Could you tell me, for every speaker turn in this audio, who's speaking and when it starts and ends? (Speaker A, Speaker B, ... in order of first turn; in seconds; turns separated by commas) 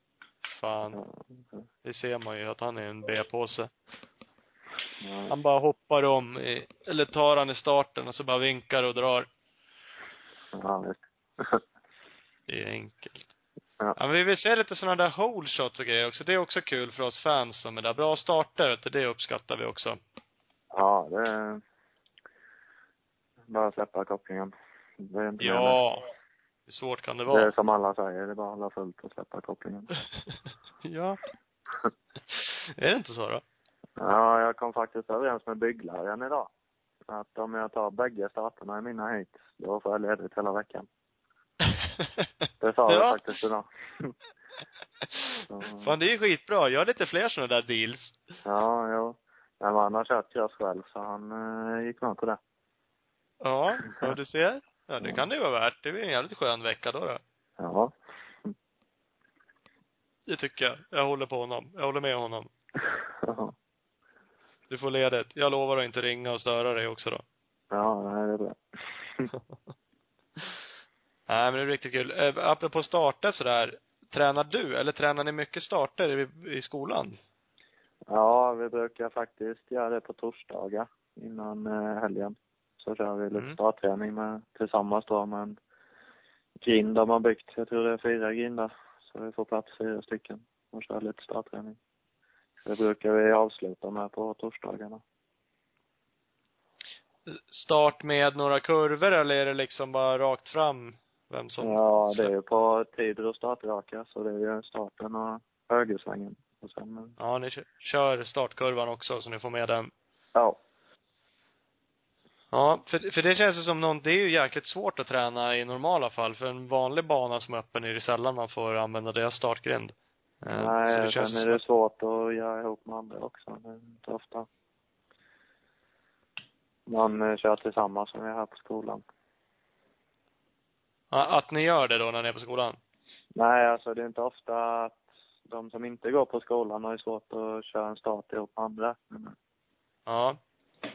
Speaker A: 0.5-1.0, Speaker B: 0.9-1.6, Speaker A: 1.8-3.7, Speaker B: 5.0-5.3, Speaker A: 5.3-9.3, Speaker B: 10.5-11.6, Speaker A: 12.5-13.3, Speaker A: 14.0-20.0, Speaker B: 20.7-21.6, Speaker B: 23.5-25.8, Speaker A: 25.4-26.1, Speaker A: 26.7-27.5, Speaker B: 27.3-29.9, Speaker A: 30.8-31.2, Speaker A: 32.3-33.4, Speaker B: 34.0-36.5, Speaker B: 37.1-40.9, Speaker B: 42.6-44.1, Speaker A: 42.9-43.2, Speaker A: 45.1-48.2, Speaker B: 45.5-46.0, Speaker B: 48.4-52.4, Speaker A: 53.4-57.2, Speaker B: 53.8-54.1, Speaker B: 57.6-57.9, Speaker A: 60.3-62.5, Speaker B: 63.2-63.5, Speaker A: 64.7-67.2, Speaker B: 67.7-68.6, Speaker A: 71.3-77.2, Speaker B: 78.1-85.6, Speaker B: 86.6-91.8, Speaker B: 92.6-95.0, Speaker A: 97.3-102.3, Speaker B: 101.6-107.1, Speaker A: 107.2-109.9, Speaker A: 112.5-121.6, Speaker B: 120.5-124.5, Speaker B: 126.9-129.0, Speaker A: 131.1-132.8, Speaker B: 133.3-139.3, Speaker A: 140.1-140.4